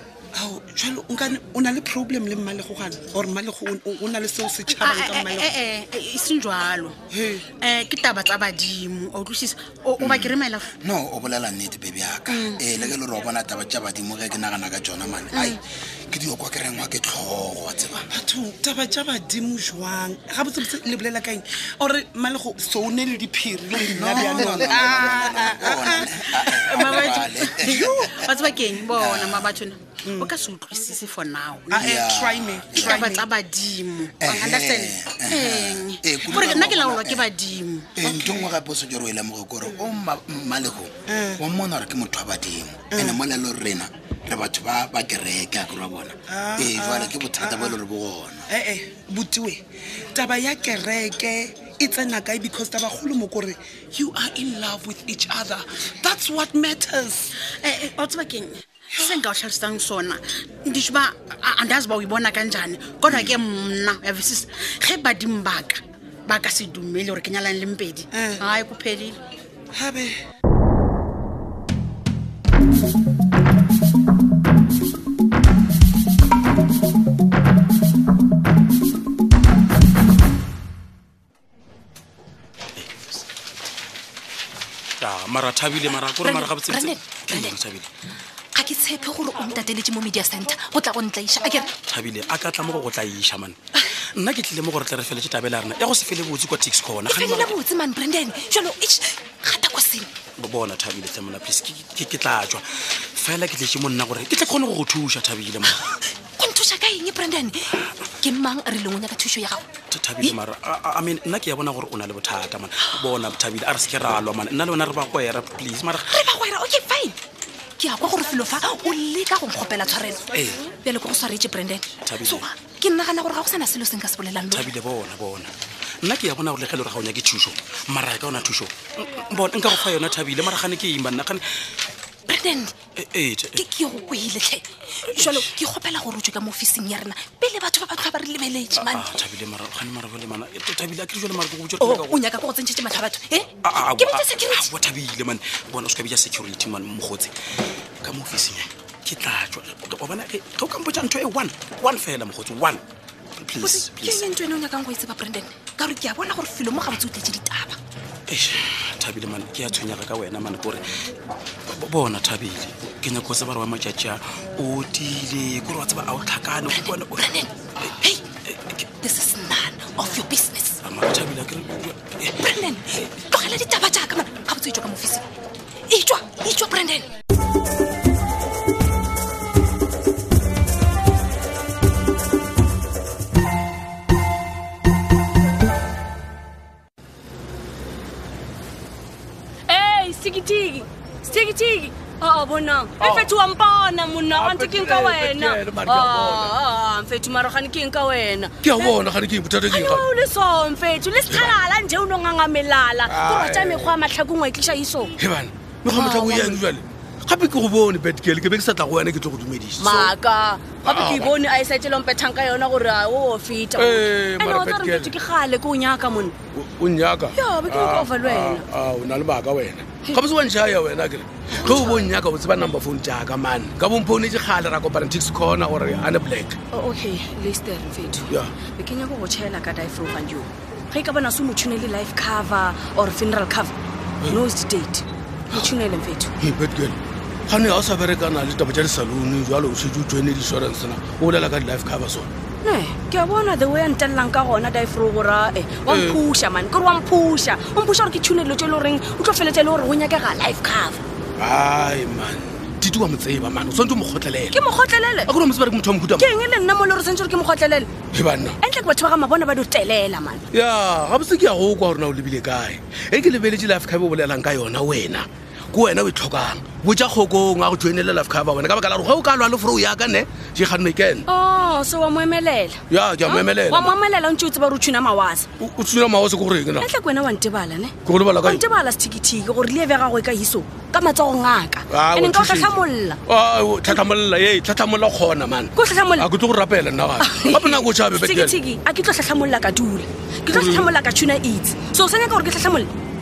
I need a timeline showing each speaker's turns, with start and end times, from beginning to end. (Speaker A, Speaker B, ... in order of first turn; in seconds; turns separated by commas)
Speaker A: 0.3-5.6, Speaker B: 4.7-7.0, Speaker A: 7.1-7.5, Speaker B: 7.6-10.7, Speaker C: 10.0-18.1, Speaker B: 12.3-12.6, Speaker A: 18.1-28.1, Speaker C: 23.9-28.2, Speaker B: 24.2-25.3, Speaker B: 25.9-31.9, Speaker C: 29.0-29.5, Speaker A: 30.1-30.3, Speaker A: 31.7-33.3, Speaker C: 31.8-33.1, Speaker B: 32.7-38.0, Speaker C: 34.2-37.3, Speaker C: 38.0-48.5, Speaker A: 38.0-38.4, Speaker A: 41.1-41.4, Speaker A: 42.9-43.2, Speaker A: 46.3-47.8, Speaker A: 48.5-49.6, Speaker A: 50.1-57.3, Speaker B: 57.6-69.2, Speaker A: 58.9-59.2, Speaker C: 63.1-63.4, Speaker A: 68.1-68.5, Speaker A: 69.7-70.2, Speaker D: 85.0-87.9, Speaker E: 85.9-87.6, Speaker E: 88.5-91.7, Speaker D: 91.9-93.6, Speaker D: 94.2-97.6, Speaker E: 97.1-100.1, Speaker D: 100.4-106.0, Speaker E: 105.9-109.7, Speaker D: 109.9-116.2, Speaker E: 116.1-117.2, Speaker E: 117.8-124.7, Speaker D: 120.3-120.6, Speaker D: 122.0-122.5, Speaker D: 124.5-125.5, Speaker D: 126.0-131.4, Speaker E: 132.3-132.8, Speaker D: 132.9-133.7, Speaker E: 133.6-139.2, Speaker D: 135.1-135.6, Speaker D: 138.7-142.2, Speaker E: 141.8-144.7, Speaker D: 143.6-147.4, Speaker D: 148.0-152.8, Speaker D: 153.4-154.3, Speaker E: 153.6-157.8, Speaker D: 158.3-160.8, Speaker D: 161.7-167.9, Speaker E: 166.7-168.3, Speaker D: 168.4-168.9, Speaker E: 168.9-170.8, Speaker D: 170.8-172.6, Speaker E: 172.4-175.2, Speaker E: 175.9-177.1, Speaker F: 189.7-206.8, Speaker G: 194.9-196.4, Speaker G: 199.2-199.7, Speaker G: 205.2-209.9, Speaker F: 209.7-218.9, Speaker G: 213.8-214.5, Speaker G: 216.6-217.3, Speaker G: 218.1-226.5, Speaker F: 219.9-220.9, Speaker F: 221.5-222.7, Speaker F: 226.7-236.9, Speaker G: 236.5-237.0, Speaker G: 237.5-242.3, Speaker F: 242.6-252.0, Speaker G: 251.4-254.5, Speaker F: 253.5-260.7, Speaker G: 255.3-256.0, Speaker G: 260.5-271.2, Speaker F: 266.6-267.0, Speaker F: 270.7-292.9, Speaker G: 272.9-273.7, Speaker G: 275.6-276.8, Speaker G: 278.1-278.6, Speaker G: 282.0-282.5, Speaker G: 283.3-285.6, Speaker G: 286.3-288.3